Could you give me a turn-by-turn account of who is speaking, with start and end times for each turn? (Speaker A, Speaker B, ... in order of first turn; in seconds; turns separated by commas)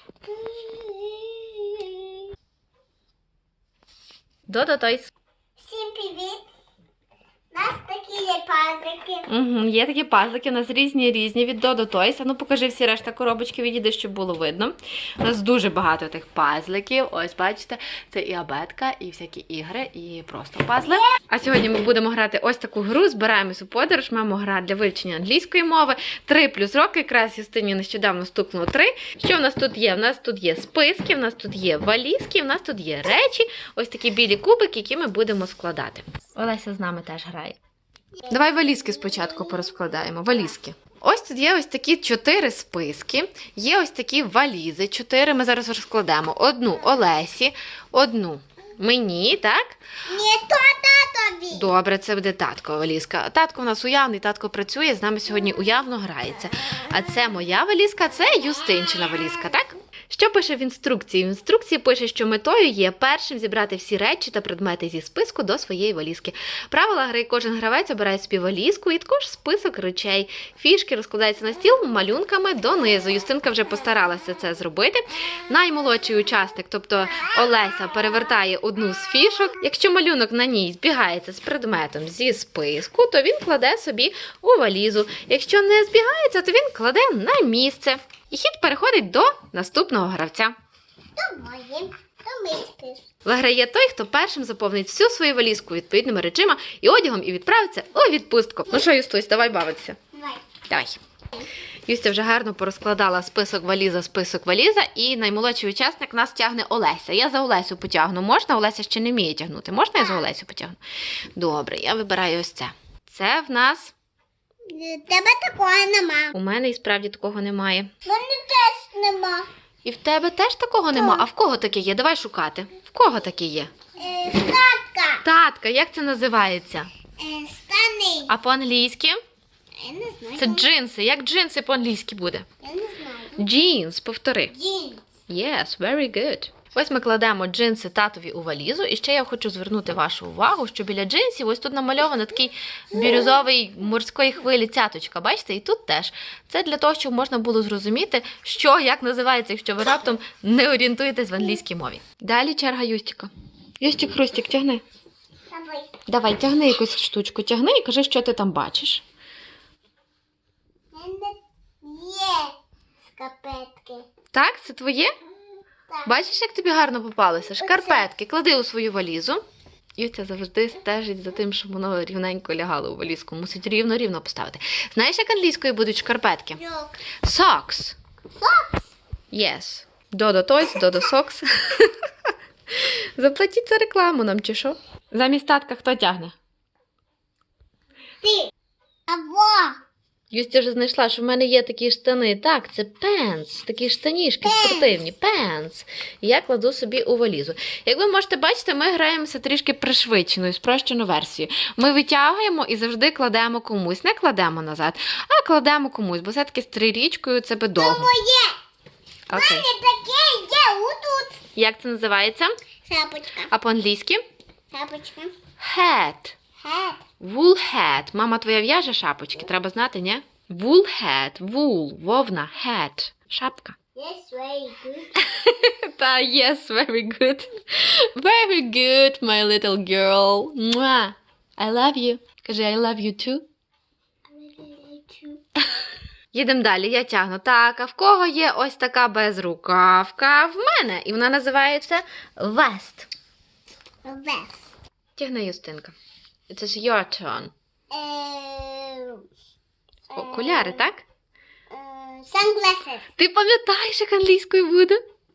Speaker A: 0.2-2.2, Speaker B: 4.5-5.1, Speaker A: 5.6-6.4, Speaker A: 7.5-9.3, Speaker B: 9.3-37.6, Speaker B: 38.3-49.7, Speaker A: 50.0-51.7, Speaker B: 51.5-90.5, Speaker A: 91.2-93.0, Speaker B: 93.2-100.0, Speaker A: 100.1-100.4, Speaker B: 100.7-101.0, Speaker B: 101.8-110.8, Speaker A: 110.0-110.2, Speaker B: 111.3-113.9, Speaker A: 114.7-116.3, Speaker B: 116.3-117.9, Speaker A: 118.0-119.5, Speaker B: 119.8-123.7, Speaker A: 120.9-121.2, Speaker A: 124.0-125.2, Speaker B: 125.2-126.9, Speaker A: 127.2-128.3, Speaker B: 128.3-129.2, Speaker A: 129.8-130.7, Speaker B: 130.4-132.4, Speaker A: 132.6-133.4, Speaker B: 133.4-134.5, Speaker A: 134.5-135.0, Speaker B: 135.3-154.8, Speaker A: 155.5-156.0, Speaker B: 156.1-159.0, Speaker A: 160.9-164.1, Speaker B: 164.3-165.1, Speaker B: 166.0-169.4, Speaker A: 167.6-168.0, Speaker B: 170.0-176.6, Speaker A: 176.6-177.0, Speaker B: 177.2-178.0, Speaker A: 178.4-178.9, Speaker B: 179.3-181.9, Speaker B: 182.7-186.3, Speaker A: 188.2-188.5, Speaker A: 189.1-189.8, Speaker B: 190.3-208.1, Speaker A: 194.4-194.9, Speaker A: 207.8-208.6, Speaker B: 209.3-209.7, Speaker A: 209.3-211.4, Speaker B: 211.5-212.5, Speaker A: 212.9-213.5, Speaker B: 213.5-214.2, Speaker A: 214.7-215.3, Speaker B: 215.6-216.4, Speaker A: 216.6-217.0, Speaker B: 217.2-223.8, Speaker A: 223.9-225.2, Speaker B: 225.2-233.4, Speaker A: 234.3-235.4, Speaker B: 236.3-243.1, Speaker A: 244.0-244.6, Speaker B: 245.2-245.9, Speaker B: 246.5-247.5, Speaker A: 247.9-249.2, Speaker A: 250.1-250.8, Speaker B: 250.1-251.0, Speaker A: 251.7-253.1, Speaker B: 253.2-255.0